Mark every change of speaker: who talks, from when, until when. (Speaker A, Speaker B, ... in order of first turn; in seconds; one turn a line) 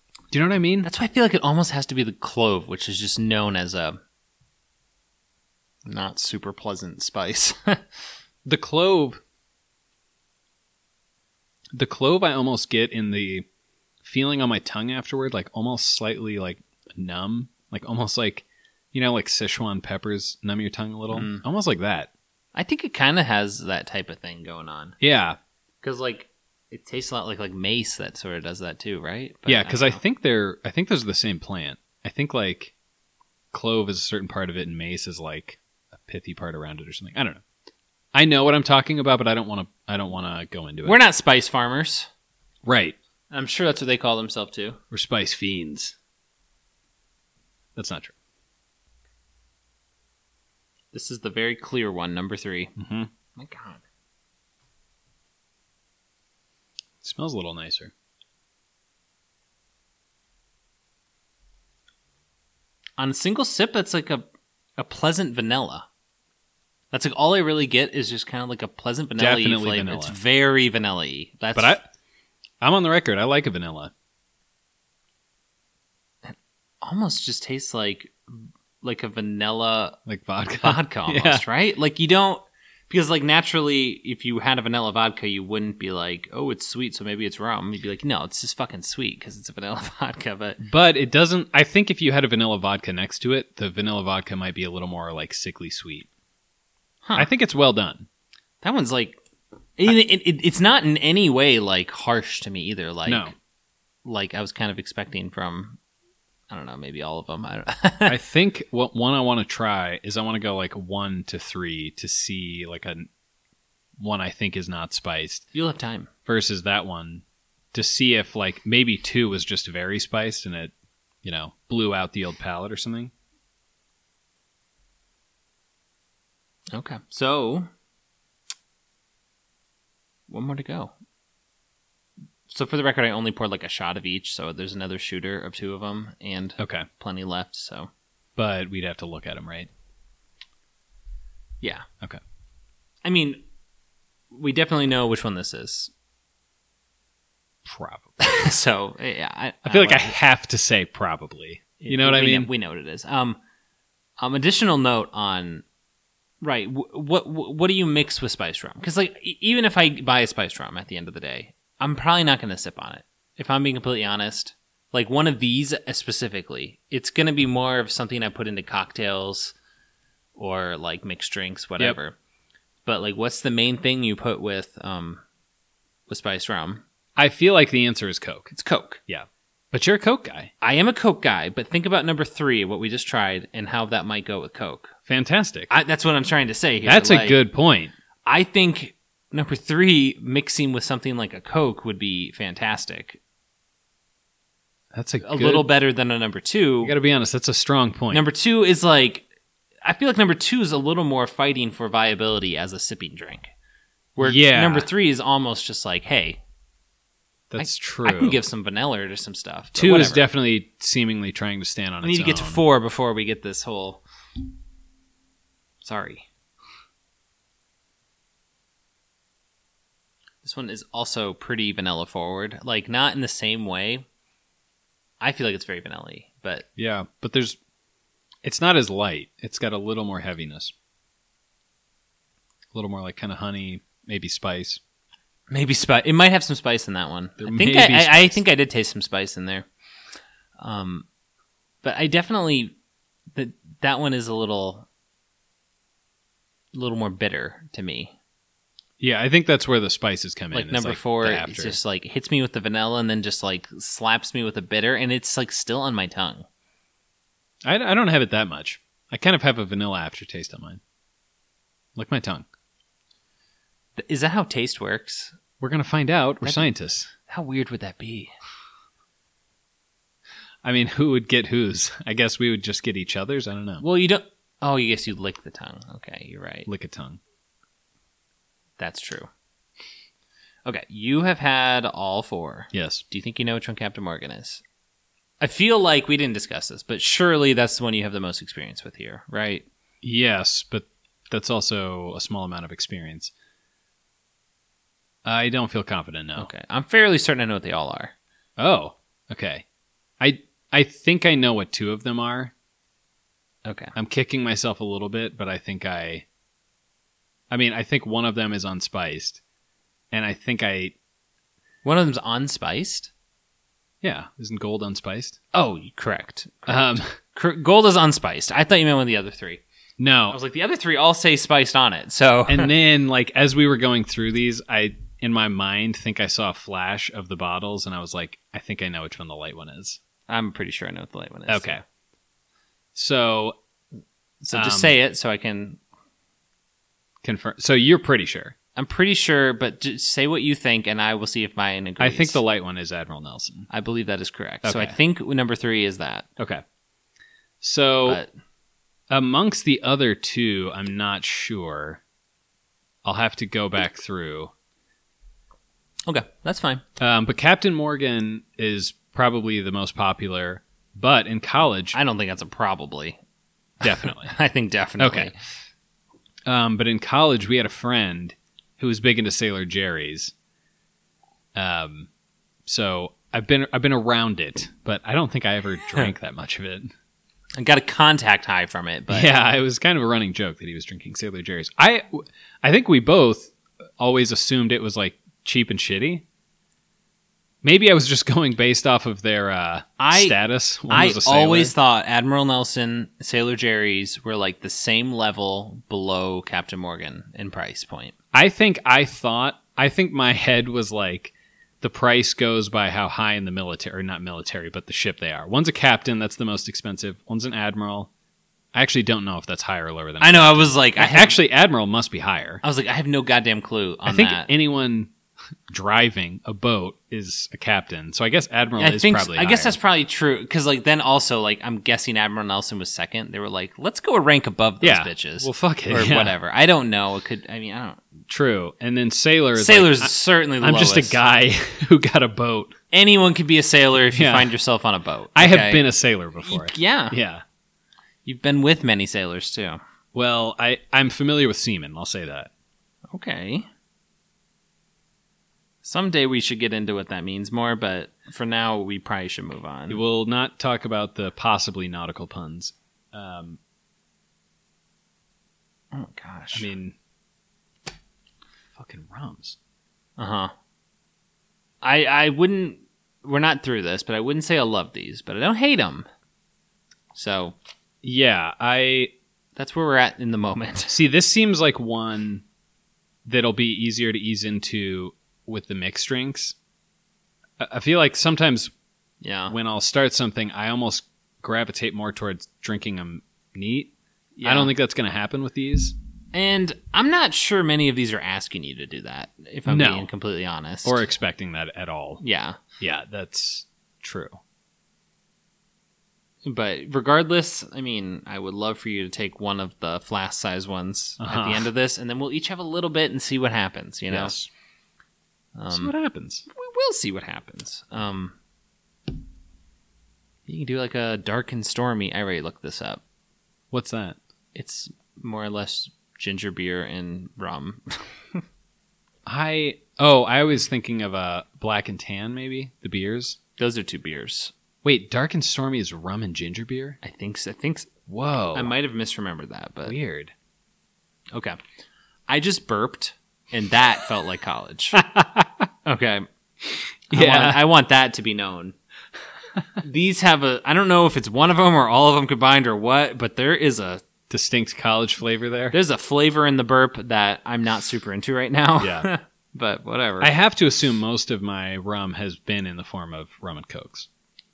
Speaker A: 0.3-0.9
Speaker B: 0.8-4.0
Speaker B: 5.8-7.9
Speaker A: 8.5-9.2
Speaker A: 11.7-13.5
Speaker A: 14.0-22.1
Speaker B: 21.1-21.4
Speaker B: 22.6-25.0
Speaker A: 25.0-25.4
Speaker B: 25.8-30.0
Speaker A: 29.5-32.7
Speaker A: 33.5-37.4
Speaker A: 38.1-41.0
Speaker B: 40.9-42.1
Speaker A: 42.6-43.0
Speaker B: 43.3-44.8
Speaker A: 44.9-46.0
Speaker A: 47.8-48.1
Speaker B: 50.9-52.7
Speaker A: 52.8-53.1
Speaker B: 53.4-53.8
Speaker A: 57.0-57.9
Speaker B: 63.0-64.3
Speaker B: 64.8-65.9
Speaker B: 66.9-71.8
Speaker A: 69.2-70.2
Speaker A: 71.5-71.8
Speaker A: 72.6-73.9
Speaker B: 76.2-80.0
Speaker A: 80.1-81.4
Speaker B: 80.6-90.6
Speaker A: 90.6-96.1
Speaker B: 97.0-97.3
Speaker A: 97.2-98.1
Speaker B: 98.6-99.2
Speaker B: 99.8-103.3
Speaker A: 103.1-103.3
Speaker B: 104.0-105.8
Speaker B: 106.5-108.2
Speaker A: 108.1-113.1
Speaker A: 114.0-115.5
Speaker B: 115.5-116.1
Speaker A: 116.3-120.7
Speaker A: 121.2-123.1
Speaker B: 126.7-127.7
Speaker B: 130.3-130.9
Speaker B: 132.5-137.9
Speaker A: 136.6-136.9
Speaker A: 138.4-139.7
Speaker B: 141.6-141.9
Speaker B: 143.0-143.4
Speaker B: 144.3-145.9
Speaker A: 147.7-148.1
Speaker B: 148.2-150.2
Speaker A: 149.7-152.5
Speaker B: 151.8-153.4
Speaker B: 154.2-155.6
Speaker B: 156.4-169.5
Speaker B: 170.4-172.2
Speaker B: 172.9-175.2
Speaker B: 176.1-176.8
Speaker A: 177.2-178.5
Speaker B: 178.5-179.0
Speaker A: 179.1-180.5
Speaker B: 180.6-184.9
Speaker A: 185.1-185.7
Speaker B: 185.7-187.4
Speaker A: 186.8-187.9
Speaker B: 188.3-193.2
Speaker A: 194.9-195.7
Speaker B: 195.2-196.9
Speaker A: 196.8-198.2
Speaker B: 198.1-199.3
Speaker B: 199.8-203.5
Speaker B: 204.2-206.4
Speaker A: 204.2-204.9
Speaker A: 207.5-208.4
Speaker B: 207.6-210.3
Speaker A: 209.8-212.6
Speaker B: 212.0-214.0
Speaker B: 215.8-216.3
Speaker B: 220.4-224.1
Speaker B: 225.2-226.7
Speaker A: 226.8-227.6
Speaker A: 228.4-230.7
Speaker A: 232.7-234.8
Speaker B: 235.5-239.7
Speaker A: 237.4-238.4
Speaker B: 240.6-241.1
Speaker B: 241.8-242.8
Speaker B: 243.3-244.9
Speaker B: 246.7-248.2
Speaker A: 249.0-251.8
Speaker B: 250.5-256.4
Speaker A: 257.6-260.8
Speaker A: 262.0-262.5
Speaker B: 264.0-265.4
Speaker A: 265.6-267.1
Speaker B: 266.4-266.7
Speaker B: 267.3-268.3
Speaker A: 270.6-273.8
Speaker B: 273.8-276.7
Speaker A: 276.7-277.2
Speaker B: 278.8-279.3
Speaker B: 280.7-284.6
Speaker A: 282.7-283.0
Speaker B: 285.4-289.7
Speaker A: 290.0-293.3
Speaker A: 295.2-296.5
Speaker B: 296.4-298.1
Speaker A: 298.6-299.6
Speaker A: 300.2-302.5
Speaker B: 303.6-303.9
Speaker A: 303.9-306.3
Speaker A: 307.5-309.4
Speaker A: 310.1-310.9
Speaker B: 311.8-313.1
Speaker A: 314.0-315.4
Speaker B: 315.5-319.6
Speaker A: 316.7-317.1
Speaker A: 320.0-320.4
Speaker B: 320.3-322.7
Speaker A: 322.5-330.0
Speaker B: 330.3-331.8
Speaker A: 331.5-331.8
Speaker A: 332.9-333.6
Speaker B: 334.4-335.8
Speaker A: 334.5-334.9
Speaker A: 337.2-338.6
Speaker B: 338.8-342.4
Speaker A: 342.0-343.7
Speaker B: 343.7-346.3
Speaker A: 344.6-345.0
Speaker A: 346.4-346.6
Speaker A: 347.6-348.2
Speaker A: 349.1-352.0
Speaker A: 353.0-354.5
Speaker B: 356.1-356.8
Speaker A: 357.0-362.0
Speaker B: 361.9-363.2
Speaker A: 363.8-364.4
Speaker B: 363.8-365.4
Speaker A: 365.0-365.3
Speaker A: 366.5-370.3
Speaker A: 371.6-372.1
Speaker A: 372.7-376.9
Speaker B: 377.6-379.3
Speaker A: 379.1-386.2
Speaker A: 387.6-391.7
Speaker B: 390.0-398.1
Speaker A: 398.3-408.1
Speaker A: 408.7-412.6
Speaker B: 410.2-411.4
Speaker B: 412.6-414.5
Speaker A: 414.1-415.1
Speaker A: 415.7-419.8
Speaker B: 418.8-428.0
Speaker A: 424.8-426.3
Speaker A: 428.3-432.8
Speaker B: 429.6-431.2
Speaker B: 432.9-435.8
Speaker A: 434.1-434.5
Speaker A: 435.4-437.4
Speaker B: 436.4-437.2
Speaker B: 438.2-439.8
Speaker A: 440.1-442.5
Speaker B: 443.1-443.7
Speaker B: 445.8-450.0
Speaker A: 449.9-453.6
Speaker B: 455.9-456.7
Speaker A: 456.5-456.9
Speaker A: 458.8-459.6
Speaker B: 460.2-460.5
Speaker B: 461.8-466.1
Speaker B: 467.1-467.6
Speaker A: 468.0-469.1
Speaker B: 469.6-471.0
Speaker A: 470.9-472.4
Speaker A: 473.2-476.6
Speaker A: 477.6-478.7
Speaker B: 479.2-479.6
Speaker A: 479.5-485.9
Speaker B: 484.4-484.7
Speaker B: 486.3-491.1
Speaker A: 489.7-490.1
Speaker A: 490.8-492.2
Speaker B: 492.2-492.6
Speaker A: 492.8-494.4
Speaker B: 496.4-504.4
Speaker A: 501.2-501.7
Speaker A: 504.1-504.5
Speaker B: 505.6-505.9
Speaker A: 505.7-506.5
Speaker B: 506.5-508.4
Speaker B: 510.5-513.0
Speaker A: 513.7-514.2
Speaker B: 514.5-518.4
Speaker A: 519.3-523.4
Speaker B: 523.6-524.5
Speaker A: 524.8-527.0
Speaker B: 527.0-527.9
Speaker A: 528.1-528.7
Speaker B: 528.5-530.0
Speaker A: 529.9-530.3
Speaker B: 532.3-535.0
Speaker A: 535.0-535.5
Speaker B: 535.9-536.3
Speaker B: 537.1-538.8
Speaker A: 537.1-537.6
Speaker B: 539.8-544.0
Speaker A: 544.3-545.8
Speaker B: 545.7-550.3
Speaker A: 548.8-549.1
Speaker A: 550.2-554.1